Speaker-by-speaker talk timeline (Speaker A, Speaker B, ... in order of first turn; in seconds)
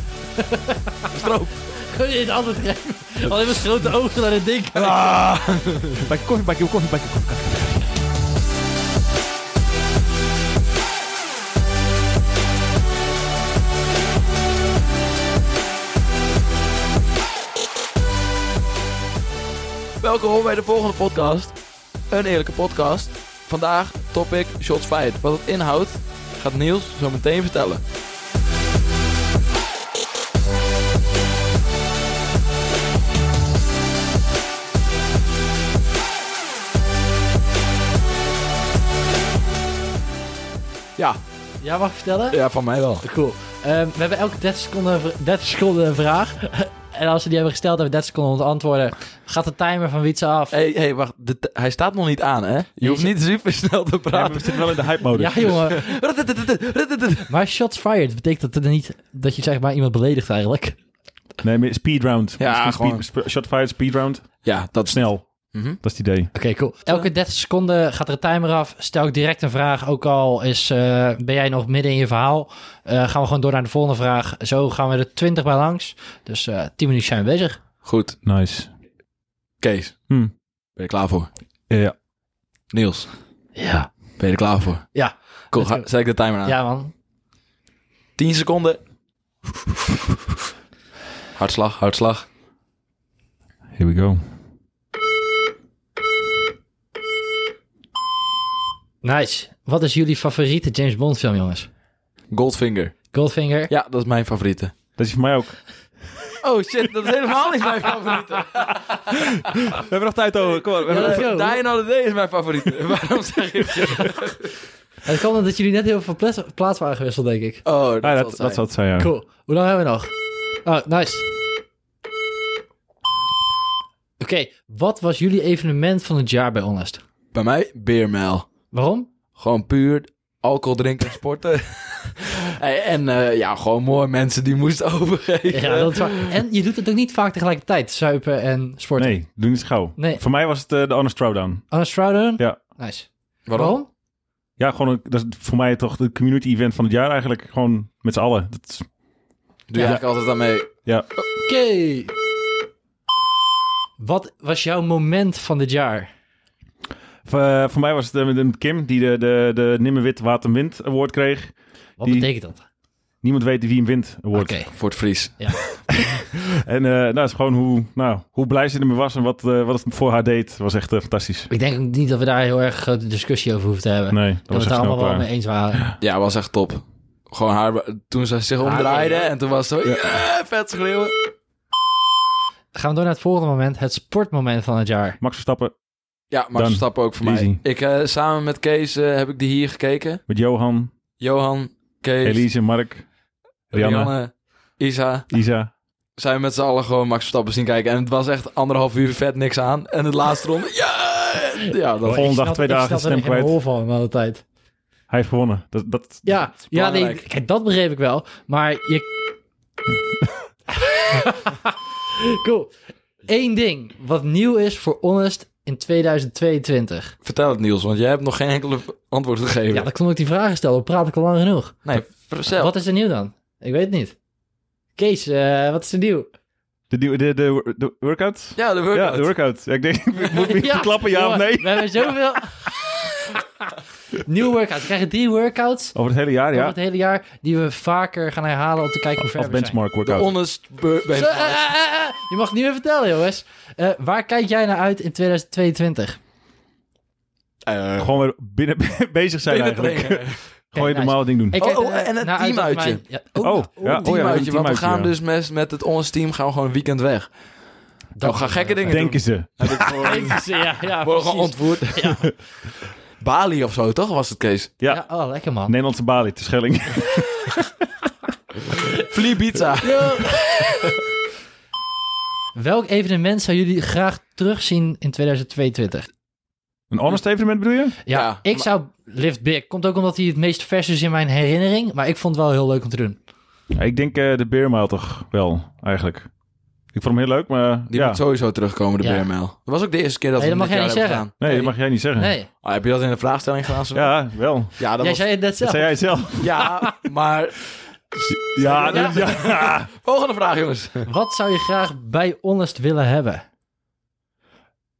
Speaker A: 0.4-0.8, 1.7-4.9, 41.6-42.4, 43.0-50.5, 52.8-53.1, 55.1-56.0, 57.3-60.8, 66.3-77.6, 83.5-83.9, 84.9-86.9, 99.0-101.7, 103.1-103.7, 110.9-111.6, 115.0-117.6, 119.0-120.1, 120.6-121.2, 124.2-127.0, 128.7-129.1, 135.5-139.2, 139.9-140.2, 141.7-143.9, 151.4-152.1, 154.0-156.1, 162.0-162.6, 164.3-164.7, 171.5-175.8, 178.6-179.3, 182.7-185.2, 202.0-204.4, 206.2-209.1, 210.8-212.7, 213.2-217.1, 219.7-221.8, 222.5-224.1, 224.9-226.3, 230.4-233.4, 234.2-235.9, 236.5-239.8, 241.1-246.2, 250.7-254.5, 258.1-259.1, 259.9-262.3, 264.9-265.7, 269.8-270.9, 272.5-276.1, 278.0-283.2, 289.0-289.3, 290.4-292.5, 295.0-296.9, 298.9-299.2, 301.1-303.4
Speaker B: 1.1-1.6, 4.7-6.0, 20.0-21.6, 22.1-27.8, 42.3-43.0, 50.5-57.3, 62.4-63.1, 64.4-65.8, 77.8-78.2, 79.6-80.1, 80.8-81.3, 82.7-83.1, 84.2-84.9, 85.5-86.5, 88.2-88.8, 91.3-92.2, 102.3-102.9, 103.7-104.7, 106.4-109.0, 110.7-114.5, 117.6-118.6, 127.3-128.4, 129.3-136.4, 143.5-143.8, 149.7-150.7, 164.7-165.8, 176.0-181.1, 186.3-190.2, 191.2-192.5, 193.7-195.4, 196.2-202.3, 206.7-207.3, 217.2-219.9, 221.8-222.7, 228.6-229.3, 240.0-241.6, 247.7-248.1, 249.4-250.4, 251.6-253.0, 253.8-257.3, 258.2-262.2, 263.2-264.7, 269.0-270.4, 278.1-278.6, 287.9-291.3, 292.6-294.2, 294.8-295.2, 296.4-301.1
Speaker C: 5.5-7.9, 54.1-55.6, 61.4-65.2, 65.8-66.3, 78.2-78.7, 93.8-94.2, 105.0-105.6, 109.0-111.2, 118.0-119.1, 139.0-141.7, 144.6-148.8, 157.2-162.3, 163.2-164.6, 166.7-171.5, 174.1-175.9, 185.2-185.7, 186.5-187.6, 190.3-190.9, 192.2-193.1, 193.7-194.1, 195.3-195.7, 202.1-203.5, 205.1-206.2, 226.9-232.2, 235.9-236.7, 239.2-240.3, 248.0-251.6, 253.4-255.1, 258.8-260.1, 264.8-267.5, 276.9-278.0, 283.7-286.3, 286.9-288.2, 291.4-292.3, 293.9-294.8, 295.6-296.7, 298.3-299.9